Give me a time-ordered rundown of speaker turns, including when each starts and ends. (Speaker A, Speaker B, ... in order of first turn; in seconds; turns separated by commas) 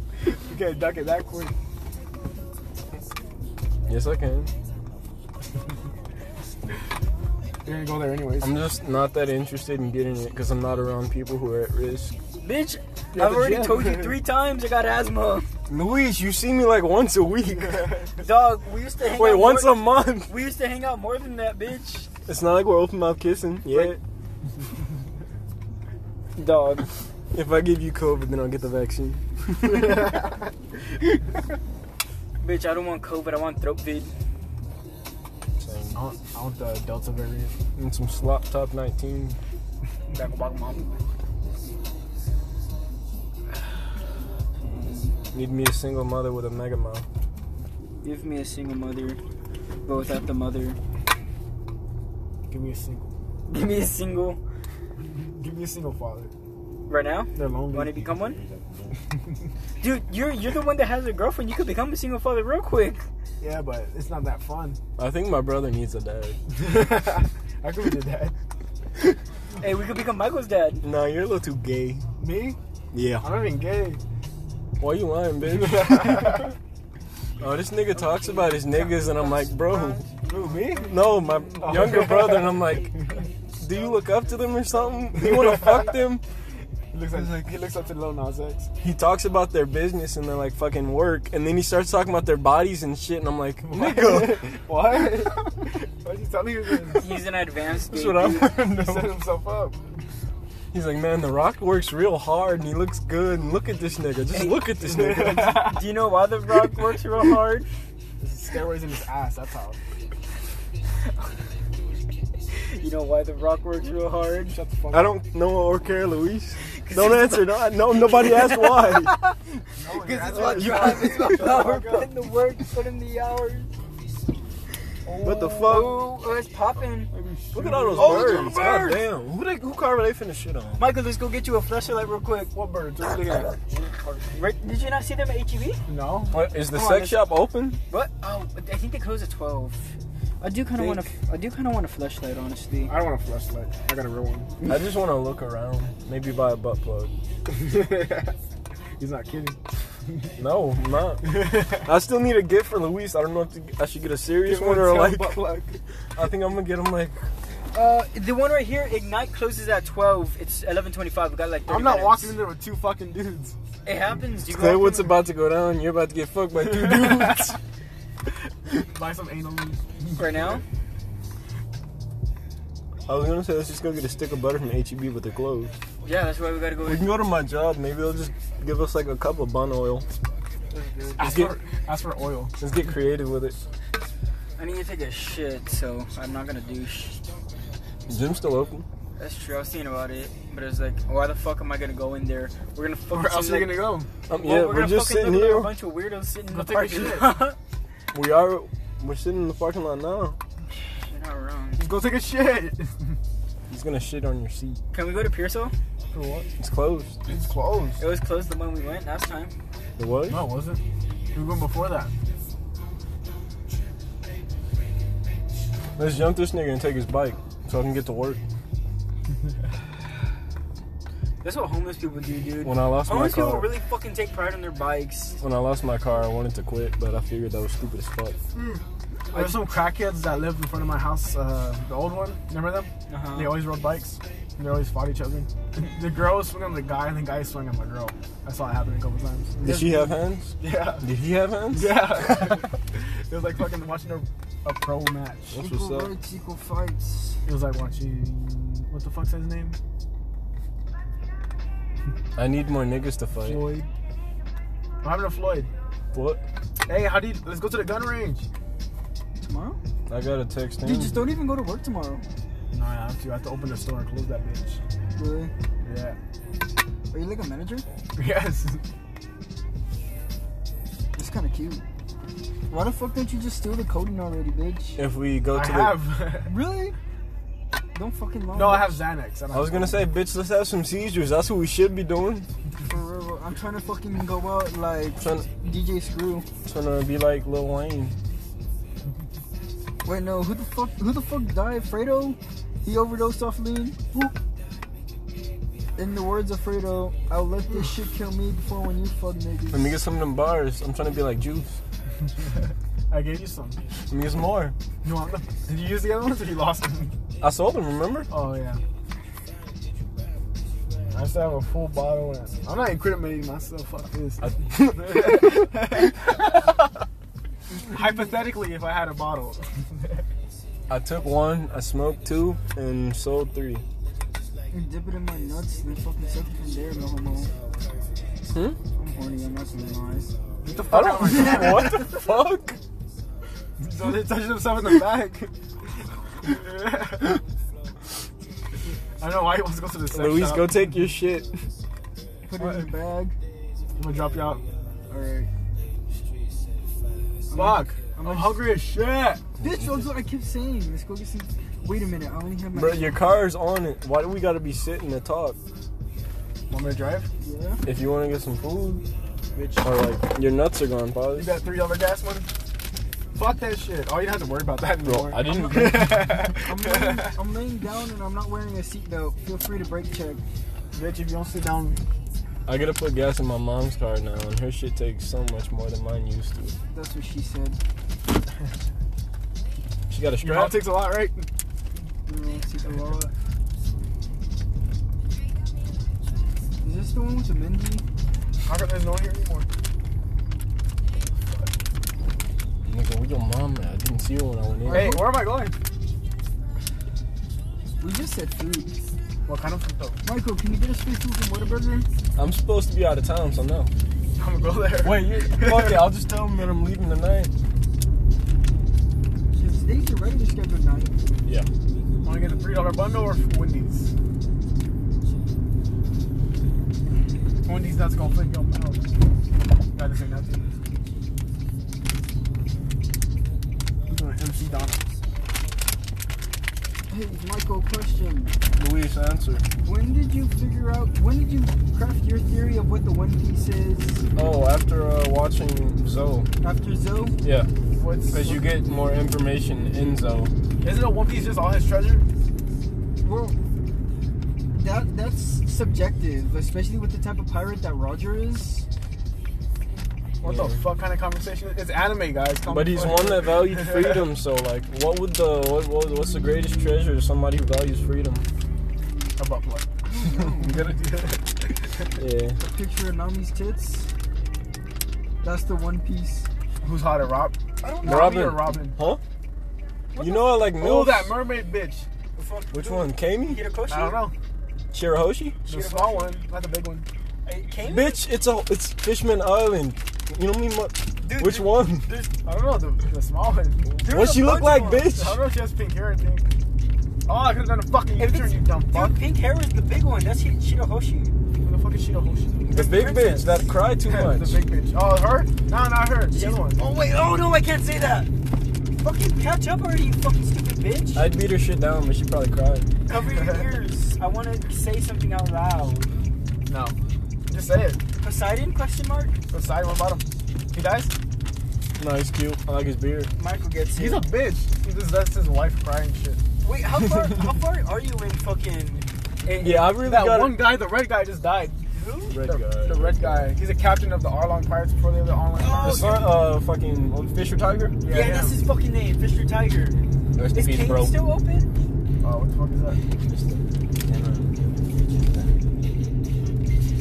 Speaker A: 0.5-1.5, Speaker B: 3.9-4.5, Speaker A: 7.6-8.5, Speaker B: 8.4-12.2, Speaker C: 12.4-15.5, Speaker A: 13.1-14.2, Speaker B: 15.7-18.0, Speaker C: 18.2-22.1, Speaker B: 19.0-20.3, Speaker B: 22.2-24.0, Speaker C: 26.4-26.9, Speaker B: 27.3-29.9, Speaker C: 32.4-34.1, Speaker B: 35.6-36.0, Speaker A: 35.9-37.6, Speaker B: 37.8-39.4, Speaker C: 40.1-40.9, Speaker C: 44.6-45.1, Speaker B: 45.3-47.0, Speaker C: 48.0-49.2, Speaker C: 49.9-50.8, Speaker A: 52.5-53.1, Speaker C: 53.5-54.4, Speaker A: 55.0-56.3, Speaker C: 56.9-58.4, Speaker A: 57.3-58.0, Speaker C: 59.8-63.0, Speaker A: 63.4-64.8, Speaker B: 65.0-66.4, Speaker A: 66.5-68.3, Speaker C: 69.6-70.8, Speaker B: 70.8-72.0, Speaker A: 72.2-72.6, Speaker B: 72.9-73.3, Speaker A: 73.2-74.0, Speaker B: 74.8-76.5, Speaker A: 75.4-76.5, Speaker B: 77.4-80.0, Speaker C: 78.0-80.2, Speaker A: 80.2-80.9, Speaker B: 80.8-83.0, Speaker A: 81.6-83.2, Speaker B: 83.6-86.2, Speaker A: 85.1-86.0, Speaker A: 86.9-88.7, Speaker B: 88.8-94.5, Speaker A: 93.7-97.2, Speaker C: 97.0-98.6, Speaker B: 97.9-99.1, Speaker A: 98.6-99.8, Speaker B: 100.7-105.8, Speaker C: 104.3-104.6, Speaker A: 104.8-105.8, Speaker C: 105.5-107.7, Speaker A: 108.2-109.8, Speaker C: 112.7-114.5, Speaker A: 114.5-115.1, Speaker B: 114.9-119.1, Speaker C: 116.7-123.7, Speaker A: 119.8-122.1, Speaker B: 120.4-121.4, Speaker A: 125.0-126.0, Speaker B: 125.2-126.0, Speaker C: 125.6-127.1, Speaker A: 127.1-128.6, Speaker B: 127.5-130.8, Speaker C: 127.9-129.0, Speaker C: 130.8-132.5, Speaker A: 132.5-134.2, Speaker C: 134.3-135.8, Speaker A: 135.9-136.4, Speaker B: 136.3-137.8, Speaker C: 136.7-137.3, Speaker C: 137.9-142.9, Speaker A: 142.9-144.5, Speaker B: 144.6-147.1, Speaker A: 147.5-148.3, Speaker A: 149.0-150.3, Speaker B: 150.4-155.4, Speaker A: 151.2-151.9, Speaker A: 154.4-155.8, Speaker B: 156.2-157.3, Speaker C: 157.7-162.3, Speaker A: 161.7-163.6, Speaker C: 163.8-165.1, Speaker B: 164.4-167.6, Speaker A: 166.7-167.5, Speaker A: 168.7-170.6, Speaker C: 170.2-170.6, Speaker B: 173.1-175.7, Speaker C: 176.0-177.1, Speaker B: 176.8-180.1, Speaker C: 180.7-181.5, Speaker A: 181.2-182.5, Speaker B: 181.2-181.5, Speaker B: 182.6-183.6, Speaker C: 184.6-187.2, Speaker B: 188.1-188.8, Speaker C: 189.2-193.8, Speaker A: 193.1-194.1, Speaker B: 194.3-195.7, Speaker C: 194.3-197.6, Speaker A: 196.5-197.4, Speaker B: 198.1-200.4, Speaker C: 201.0-201.8, Speaker A: 201.8-203.2, Speaker B: 203.7-204.8, Speaker C: 204.9-205.7, Speaker A: 206.1-206.5, Speaker B: 206.6-207.2, Speaker A: 207.2-208.0, Speaker C: 208.0-209.5, Speaker B: 210.0-210.4, Speaker A: 210.3-210.8, Speaker A: 211.3-212.1, Speaker B: 216.0-218.4, Speaker C: 221.4-225.4, Speaker B: 222.6-223.7, Speaker B: 225.4-228.4, Speaker A: 228.5-241.1, Speaker C: 229.3-229.6, Speaker C: 233.1-233.6, Speaker B: 239.6-242.0, Speaker A: 241.7-245.6, Speaker B: 245.5-246.1, Speaker C: 245.6-247.4, Speaker A: 247.4-249.8, Speaker B: 252.3-253.6, Speaker A: 253.4-253.9, Speaker A: 255.0-255.7, Speaker B: 256.1-256.4, Speaker A: 256.9-258.4, Speaker C: 259.4-259.8, Speaker B: 260.1-261.2, Speaker C: 260.8-262.2, Speaker A: 262.7-264.8, Speaker C: 265.1-265.5, Speaker A: 265.8-266.2, Speaker C: 267.1-267.9, Speaker A: 268.2-268.8, Speaker C: 271.1-271.8, Speaker C: 272.7-275.0, Speaker B: 275.0-276.0, Speaker A: 275.5-276.5, Speaker C: 276.4-276.9, Speaker C: 277.9-279.0, Speaker A: 278.5-280.0, Speaker B: 279.5-282.5, Speaker C: 282.8-286.5, Speaker B: 285.2-285.5, Speaker B: 286.6-288.2, Speaker C: 290.0-294.3, Speaker C: 295.9-299.9, Speaker B: 299.7-301.8, Speaker A: 303.1-303.8, Speaker B: 304.1-304.7, Speaker A: 305.0-307.1, Speaker B: 307.4-308.3, Speaker A: 308.3-308.8, Speaker A: 311.1-316.6, Speaker B: 314.4-315.4, Speaker A: 317.8-320.2, Speaker B: 320.9-323.8, Speaker C: 324.7-327.5, Speaker B: 328.5-328.8, Speaker C: 328.9-330.3, Speaker A: 330.6-332.1, Speaker B: 330.9-332.8, Speaker C: 331.2-331.9, Speaker A: 333.8-335.5, Speaker A: 336.4-337.4, Speaker A: 339.2-340.8, Speaker B: 340.1-341.7, Speaker C: 342.4-343.4, Speaker A: 342.6-342.9, Speaker A: 344.0-344.6, Speaker C: 345.1-345.5, Speaker C: 347.5-348.6, Speaker A: 347.5-349.4, Speaker B: 349.6-350.1, Speaker C: 349.6-353.2, Speaker B: 352.7-355.6, Speaker A: 356.7-357.3, Speaker C: 357.4-357.8, Speaker B: 357.9-359.0, Speaker A: 359.5-359.9, Speaker B: 359.8-361.5, Speaker A: 361.3-362.5, Speaker A: 363.3-367.3, Speaker B: 365.0-366.3, Speaker C: 365.4-370.4, Speaker A: 370.9-372.0, Speaker B: 372.6-376.8, Speaker C: 376.9-377.8, Speaker B: 380.1-380.8, Speaker A: 380.4-381.5, Speaker C: 382.2-383.3, Speaker C: 386.8-388.0, Speaker A: 388.6-389.7, Speaker B: 392.8-395.1, Speaker C: 394.9-395.4, Speaker A: 394.9-395.7, Speaker C: 398.0-398.9, Speaker A: 399.4-400.2, Speaker C: 400.2-402.1, Speaker B: 402.4-403.9, Speaker A: 404.4-406.1, Speaker B: 405.0-407.5, Speaker C: 409.5-411.2, Speaker A: 412.2-414.1, Speaker A: 417.6-419.0, Speaker A: 419.9-420.7, Speaker A: 424.1-425.0, Speaker C: 427.1-428.5, Speaker B: 428.8-429.6, Speaker C: 429.8-434.2, Speaker B: 434.4-436.5, Speaker C: 436.6-437.4, Speaker B: 437.4-437.7, Speaker A: 437.9-438.6, Speaker B: 438.3-440.5, Speaker A: 440.8-442.2, Speaker C: 443.2-443.6, Speaker C: 444.8-448.9, Speaker A: 450.4-454.2, Speaker B: 450.4-450.8, Speaker B: 452.6-458.5, Speaker A: 459.4-461.7, Speaker C: 460.1-460.9, Speaker B: 462.2-462.6, Speaker C: 462.6-464.1, Speaker C: 465.4-466.5, Speaker A: 466.8-469.0, Speaker C: 467.8-468.5, Speaker B: 468.0-469.2, Speaker C: 470.1-470.6, Speaker B: 470.2-471.4, Speaker A: 470.8-472.1, Speaker C: 472.4-474.3, Speaker B: 472.7-473.6, Speaker A: 473.9-474.3, Speaker B: 474.9-475.6, Speaker A: 475.7-477.1, Speaker C: 475.7-476.3, Speaker C: 477.4-478.2, Speaker B: 477.8-482.1, Speaker C: 481.2-482.3, Speaker A: 482.3-484.0, Speaker C: 484.0-485.1, Speaker B: 484.1-485.4, Speaker A: 485.1-486.5, Speaker A: 487.2-489.2, Speaker C: 488.2-491.3, Speaker A: 491.6-492.6, Speaker B: 492.6-494.6, Speaker C: 492.7-493.6, Speaker A: 494.0-496.8, Speaker C: 496.3-498.3, Speaker C: 498.9-501.2, Speaker B: 501.1-502.9, Speaker C: 503.1-506.2, Speaker A: 506.6-508.0, Speaker C: 508.2-509.4, Speaker A: 509.5-511.1, Speaker B: 512.0-513.3, Speaker C: 513.4-514.2, Speaker A: 514.0-516.4, Speaker C: 516.6-520.0, Speaker B: 519.6-520.6, Speaker A: 519.9-521.8, Speaker C: 521.9-522.4, Speaker B: 522.3-523.5, Speaker A: 522.4-526.1, Speaker C: 525.5-526.3, Speaker B: 525.8-528.0, Speaker A: 528.0-528.6, Speaker C: 528.1-530.0, Speaker B: 530.4-531.1, Speaker C: 530.5-531.7, Speaker A: 532.2-533.0, Speaker B: 533.2-534.5